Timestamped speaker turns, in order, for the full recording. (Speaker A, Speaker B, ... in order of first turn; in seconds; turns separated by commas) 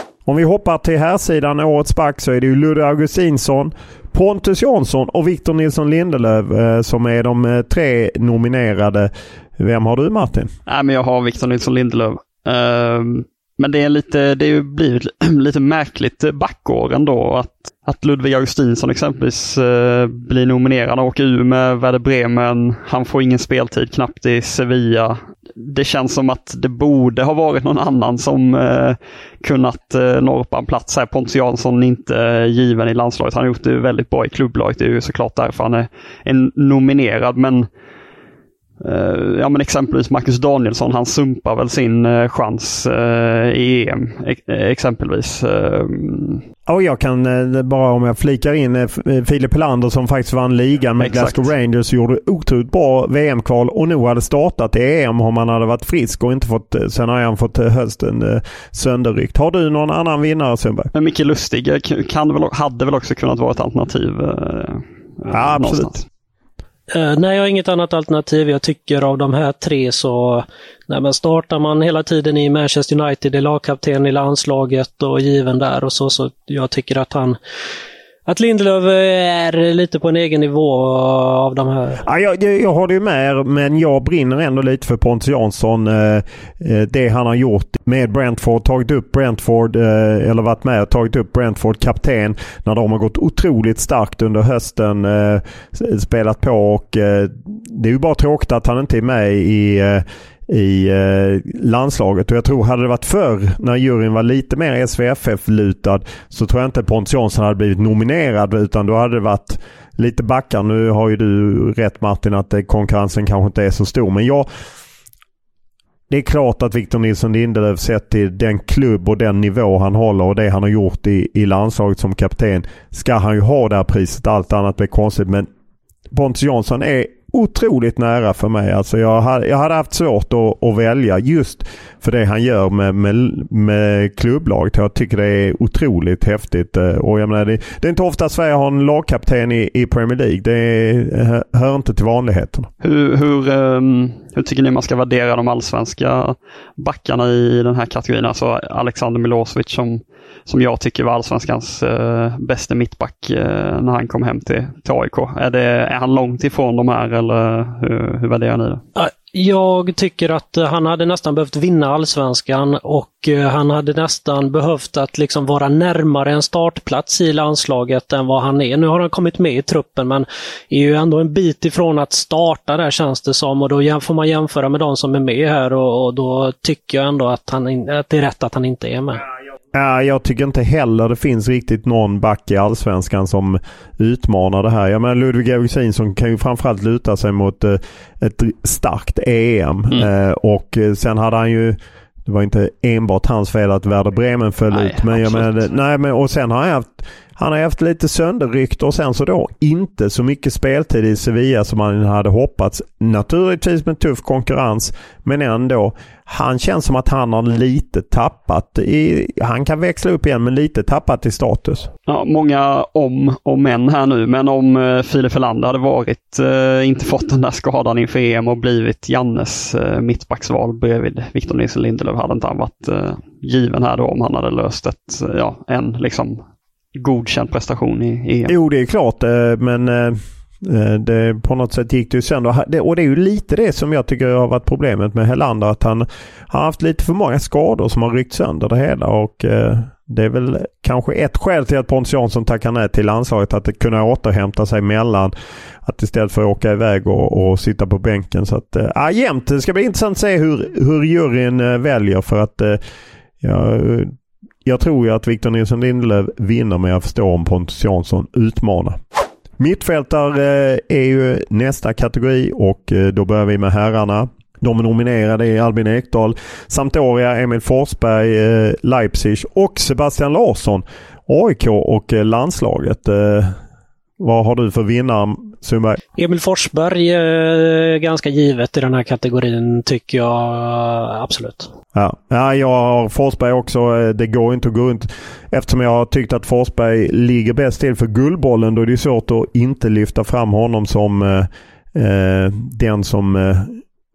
Speaker A: 0.2-10.5, Speaker B: 10.7-37.7, Speaker B: 38.8-46.4, Speaker A: 46.6-60.9, Speaker B: 51.0-51.5, Speaker B: 60.9-66.0, Speaker A: 65.3-65.9, Speaker C: 66.9-77.4, Speaker C: 78.3-82.0, Speaker A: 82.0-114.5, Speaker A: 116.1-125.5, Speaker A: 126.1-142.7, Speaker B: 142.8-158.8, Speaker C: 158.9-179.2, Speaker A: 179.7-211.9, Speaker B: 194.7-195.6, Speaker B: 212.1-226.4, Speaker B: 226.9-228.5, Speaker A: 228.5-252.8, Speaker A: 253.4-254.1, Speaker A: 254.6-259.0, Speaker A: 259.6-273.6, Speaker A: 274.2-276.0, Speaker C: 276.2-281.7, Speaker A: 281.9-293.8